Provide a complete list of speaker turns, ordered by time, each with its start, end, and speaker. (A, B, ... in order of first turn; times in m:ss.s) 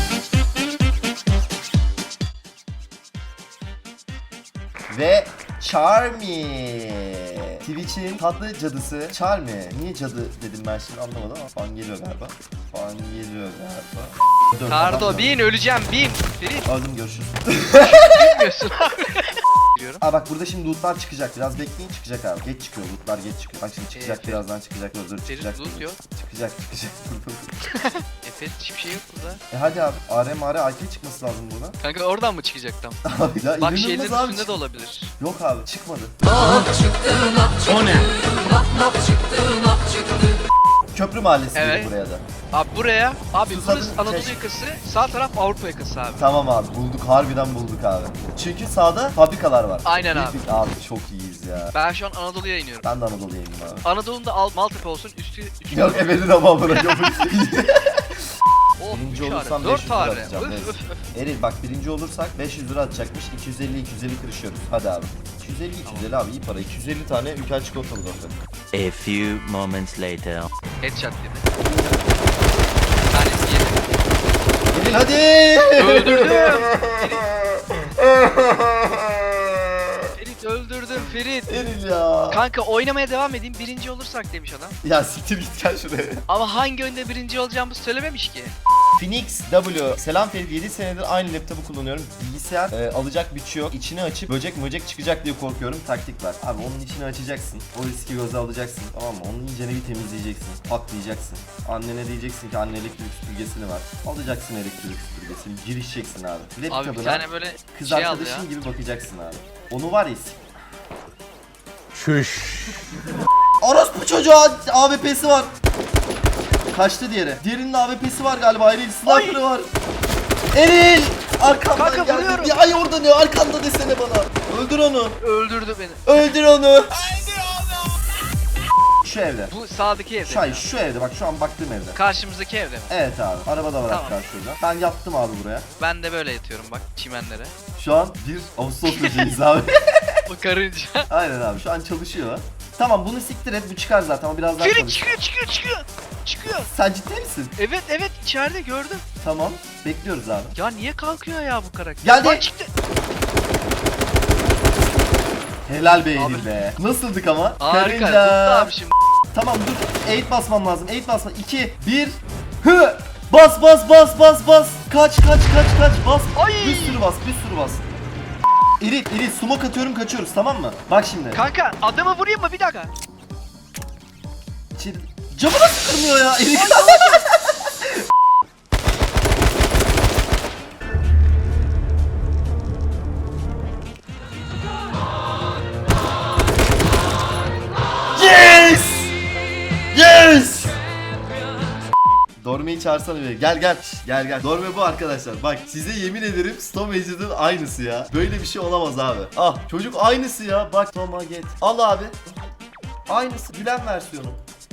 0:04.9-0:15.4 A
0:14.7-0:16.7 B
0:16.6-0:18.4 A
0:17.7-0:20.0 B
0:20.0-0:27.6 A
0:23.9-0:24.4 B
0:25.3-0:26.0 B
0:27.7-0:29.4 B
0:29.5-0:31.8 A
0:31.8-0:33.0 B
0:33.0-0:34.5 A
0:33.6-0:35.1 B
0:35.2-0:36.2 A
0:36.3-0:40.4 B
0:37.7-0:38.1 C
0:40.9-0:42.2 A
0:41.5-0:41.9 B
0:42.5-0:46.2 B
0:43.4-0:44.4 A
0:46.2-0:51.7 A
0:49.8-0:50.4 B
0:51.7-0:52.8 B
0:52.8-0:53.8 A
0:53.8-0:56.9 B
0:55.7-0:58.2 A
0:58.8-1:01.0 B
0:58.9-1:08.4 A
1:05.8-1:06.1 B
1:08.7-1:10.5 C
1:10.8-1:11.5 B
1:13.1-1:13.8 B
1:14.7-1:17.5 A
1:15.8-1:17.3 B
1:18.1-1:18.9 A
1:20.2-1:21.6 B
1:21.5-1:22.4 A
1:22.3-1:24.8 B
1:24.8-1:26.2 A
1:26.3-1:28.5 B
1:29.0-1:50.4 A
1:46.7-1:48.5 B
1:53.6-1:55.5 A
1:56.7-1:59.7 A
1:59.0-1:59.4 B
2:00.5-2:05.2 A
2:01.7-2:02.5 B
2:05.2-2:06.2 B
2:06.0-2:07.3 A
2:09.0-2:09.5 A
2:09.5-2:10.7 B
2:10.2-2:12.0 A
2:11.9-2:12.9 B
2:12.9-2:15.7 A
2:13.8-2:14.2 B
2:15.8-2:17.5 B
2:17.7-2:20.2 A
2:18.8-2:19.4 B
2:20.3-2:21.1 B
2:21.1-2:25.1 A
2:24.6-2:26.7 B
2:26.6-2:27.5 A
2:27.6-2:29.0 B
2:29.2-2:30.5 A
2:30.5-2:32.7 B
2:32.0-2:32.5 A
2:35.7-2:38.7 A
2:36.1-2:36.5 B
2:37.6-2:38.9 B
2:39.3-2:48.0 A
2:46.4-2:47.0 B
2:48.8-2:51.4 A
2:51.3-2:52.9 B
2:54.8-2:57.9 A
2:56.5-2:57.2 B
3:08.1-3:09.1 A
3:09.9-3:10.7 A
3:12.4-3:22.1 A
3:23.1-3:24.4 A